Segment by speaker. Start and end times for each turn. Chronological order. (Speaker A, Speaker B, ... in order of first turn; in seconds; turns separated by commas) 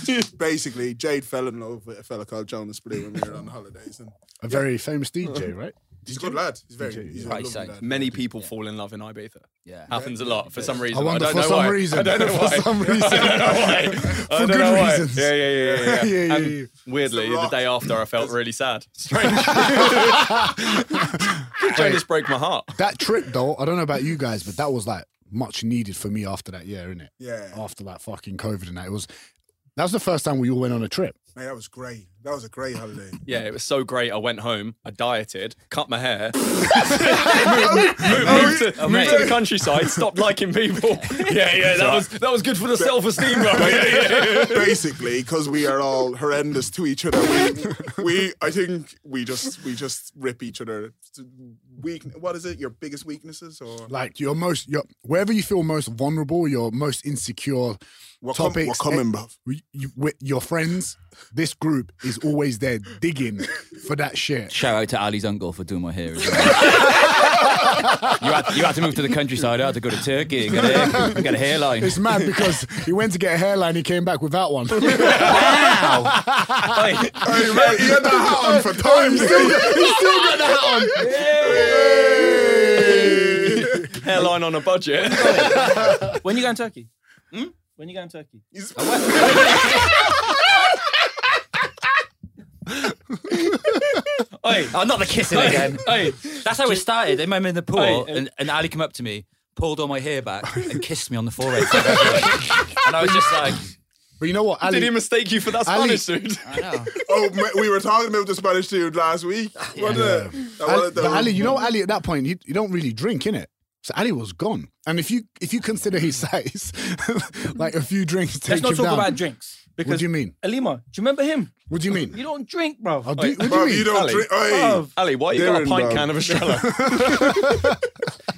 Speaker A: 0.3-4.1, Speaker B: 4.4-7.5, Speaker A: 6.0-8.5, Speaker C: 7.2-7.8, Speaker D: 7.8-22.8, Speaker C: 9.7-9.9, Speaker A: 9.9-10.7, Speaker B: 10.9-16.7, Speaker A: 13.2-13.8, Speaker A: 15.5-16.1, Speaker A: 17.0-18.4, Speaker B: 19.2-22.0, Speaker B: 22.7-29.1, Speaker A: 27.2-27.6, Speaker B: 29.8-31.1, Speaker A: 31.3-33.2, Speaker D: 33.2-44.8, Speaker A: 36.8-40.0, Speaker C: 38.0-39.4, Speaker E: 41.5-41.9, Speaker A: 42.8-53.9, Speaker B: 53.9-57.8, Speaker A: 58.2-59.3, Speaker B: 58.3-64.6, Speaker C: 64.5-72.0, Speaker B: 70.6-71.2, Speaker B: 71.8-76.8, Speaker D: 74.8-75.7, Speaker C: 75.2-76.1, Speaker D: 76.7-78.1, Speaker A: 77.2-84.0, Speaker B: 77.5-83.8, Speaker E: 81.0-82.8, Speaker D: 83.6-85.8, Speaker E: 85.1-86.9, Speaker E: 87.7-88.4, Speaker A: 88.5-89.9, Speaker C: 88.8-90.0, Speaker E: 94.4-96.8, Speaker C: 94.5-103.7, Speaker E: 97.7-98.3, Speaker B: 102.9-103.5, Speaker B: 104.2-105.0, Speaker D: 104.6-107.4, Speaker B: 105.6-106.1, Speaker C: 106.4-106.9, Speaker A: 107.0-111.6, Speaker B: 109.8-119.2, Speaker E: 118.5-121.5, Speaker B: 119.8-120.3, Speaker B: 121.7-122.2, Speaker E: 122.1-123.1, Speaker B: 123.0-124.0, Speaker D: 123.1-127.7, Speaker A: 123.4-126.6, Speaker E: 124.4-124.9, Speaker B: 126.7-127.7